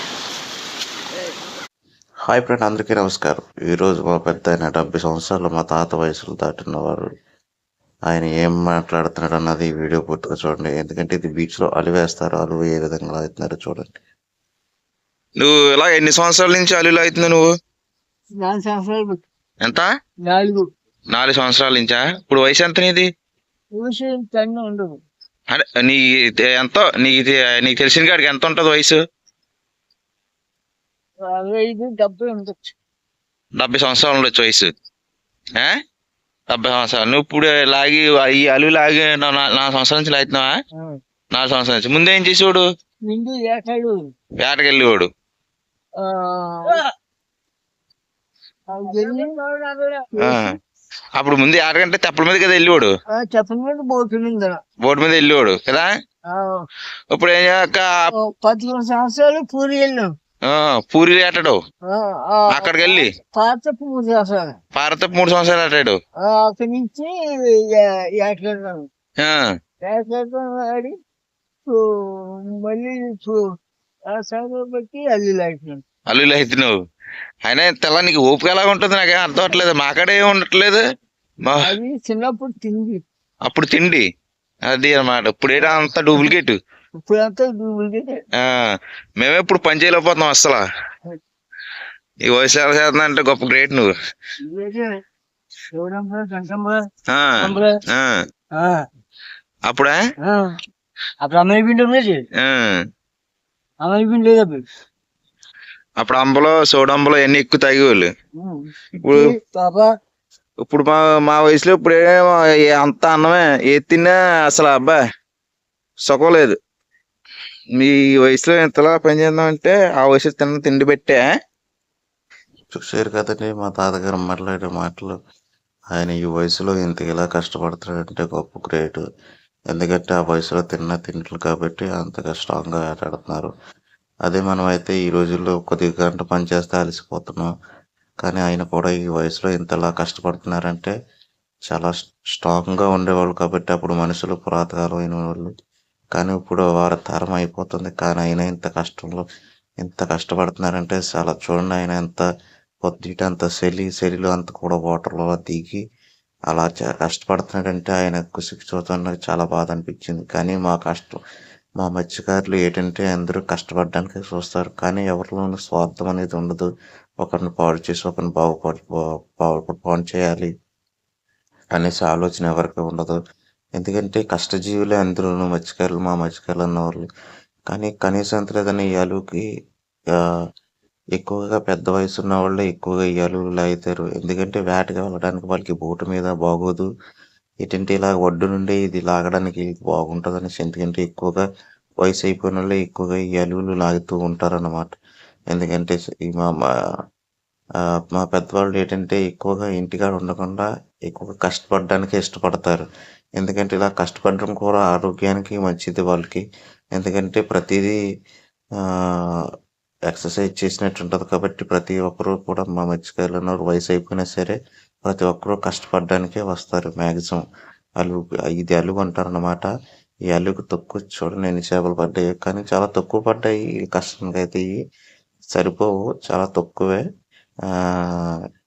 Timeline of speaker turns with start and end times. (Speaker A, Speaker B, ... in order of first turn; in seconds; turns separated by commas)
Speaker A: 2.3-7.1, Speaker A: 8.1-14.0, Speaker B: 15.4-17.5, Speaker C: 18.4-19.2, Speaker C: 20.2-20.7, Speaker B: 21.1-23.1, Speaker C: 23.8-24.9, Speaker B: 25.5-29.0, Speaker C: 31.2-32.8, Speaker B: 33.6-34.7, Speaker B: 36.5-40.5, Speaker B: 41.3-42.6, Speaker C: 43.0-44.0, Speaker B: 44.4-45.1, Speaker C: 46.0-46.8, Speaker C: 48.7-50.4, Speaker B: 50.2-50.5, Speaker B: 51.2-52.9, Speaker C: 53.1-54.6, Speaker B: 54.8-55.9, Speaker C: 56.3-56.7, Speaker B: 57.1-58.1, Speaker C: 58.1-60.1, Speaker B: 60.5-61.6, Speaker C: 61.9-64.6, Speaker B: 62.5-63.1, Speaker B: 64.8-66.0, Speaker C: 66.2-68.9, Speaker B: 69.2-69.5, Speaker C: 69.8-70.9, Speaker C: 71.7-73.4, Speaker C: 74.1-75.8, Speaker B: 76.1-76.8, Speaker B: 77.5-80.8, Speaker B: 81.5-81.7, Speaker C: 81.6-83.0, Speaker B: 83.5-84.0, Speaker B: 84.7-86.6, Speaker C: 87.0-88.2, Speaker B: 88.4-90.6, Speaker B: 92.3-93.9, Speaker C: 94.4-94.9, Speaker C: 95.7-96.8, Speaker B: 97.1-98.2, Speaker C: 97.4-97.8, Speaker C: 98.5-98.8, Speaker B: 99.7-100.0, Speaker C: 100.2-100.5, Speaker C: 101.2-102.2, Speaker B: 102.4-102.8, Speaker C: 103.8-104.6, Speaker B: 106.0-108.1, Speaker C: 108.4-109.9, Speaker B: 109.0-109.3, Speaker B: 110.7-115.0, Speaker B: 116.1-116.6, Speaker B: 117.8-121.2, Speaker A: 122.7-125.2, Speaker A: 125.9-129.0, Speaker A: 129.7-133.5, Speaker A: 134.3-137.5, Speaker A: 138.2-140.9, Speaker A: 141.7-145.5, Speaker A: 146.1-149.2, Speaker A: 149.8-152.2, Speaker A: 152.8-155.8, Speaker A: 156.5-161.2, Speaker A: 161.8-166.7, Speaker A: 167.2-170.5, Speaker A: 171.8-173.2, Speaker A: 173.8-177.1, Speaker A: 177.7-179.4, Speaker A: 181.2-186.9, Speaker A: 187.6-191.4, Speaker A: 192.0-195.0, Speaker A: 195.5-196.5, Speaker A: 198.1-202.8, Speaker A: 203.4-206.4, Speaker A: 207.0-208.0, Speaker A: 210.1-217.4, Speaker A: 218.0-219.7, Speaker A: 220.3-224.7, Speaker A: 225.5-227.0, Speaker A: 227.7-228.4